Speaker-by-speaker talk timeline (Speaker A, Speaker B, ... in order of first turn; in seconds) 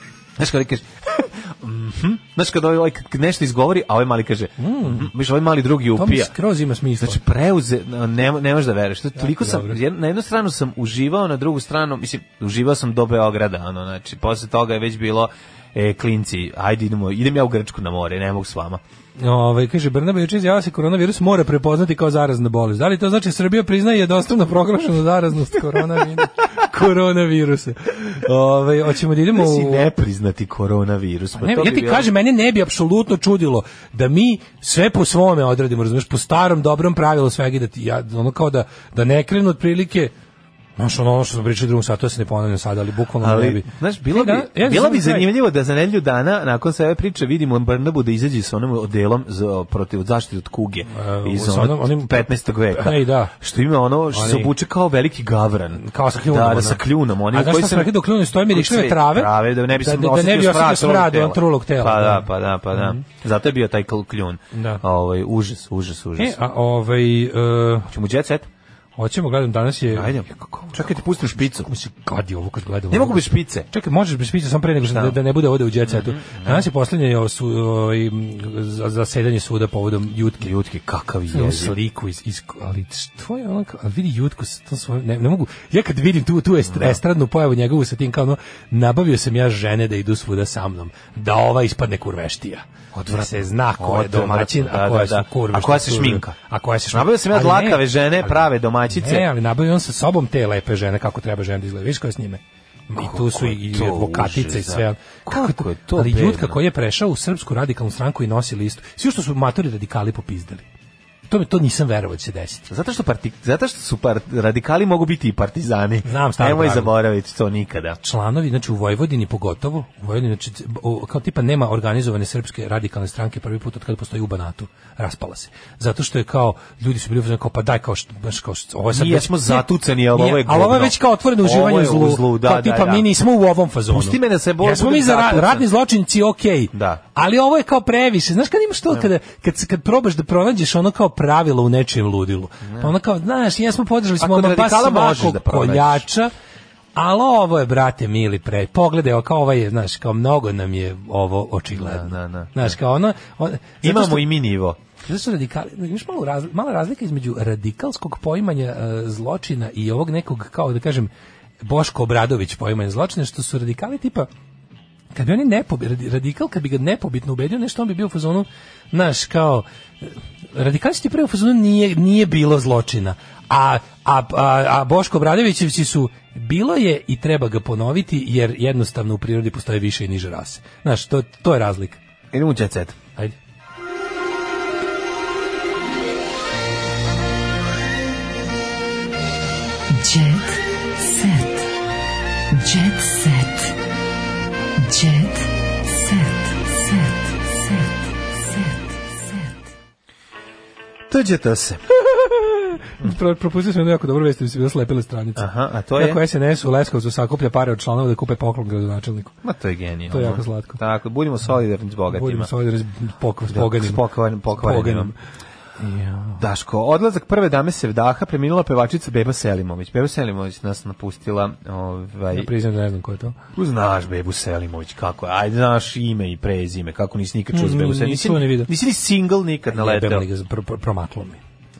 Speaker A: 0.4-6.3, 7.0-18.8, 29.3-32.1, 43.2-66.4, 67.9-68.5, 69.9-71.7, 72.9-73.7, 74.9-75.2, 75.8-76.7, 80.4-81.7, 86.7-87.0, 92.9-96.3, 96.9-99.3, 103.0-106.6, 112.7-118.0, 128.9-133.1, 133.9-135.7, 136.7-137.0, 142.6-142.9, 144.2-146.1, 151.7-152.8, 153.8-154.8, 182.3-183.0, 201.1-201.8, 205.3-206.2, 209.4-212.5, 213.5-215.1, 216.4-222.5, 223.5-230.2
Speaker B: 4.6-5.1, 5.9-7.2, 9.2-9.8, 19.2-29.9, 31.4-40.1, 40.8-45.3, 50.9-53.3, 54.1-54.5, 55.8-63.0, 64.5-64.8, 66.2-67.9, 69.0-70.8, 71.4-80.5, 81.3-110.7, 111.3-112.7, 116.0-116.9, 118.0-146.3, 146.9-154.3, 155.0-161.1, 161.6-164.3, 165.1-182.0, 201.9-209.3, 210.1-210.8, 212.1-214.0, 214.5-215.1, 215.8-216.4, 222.3-223.3, 227.5-228.7, 229.7-231.4
Speaker C: 189.9-191.7, 192.5-193.8, 194.8-199.6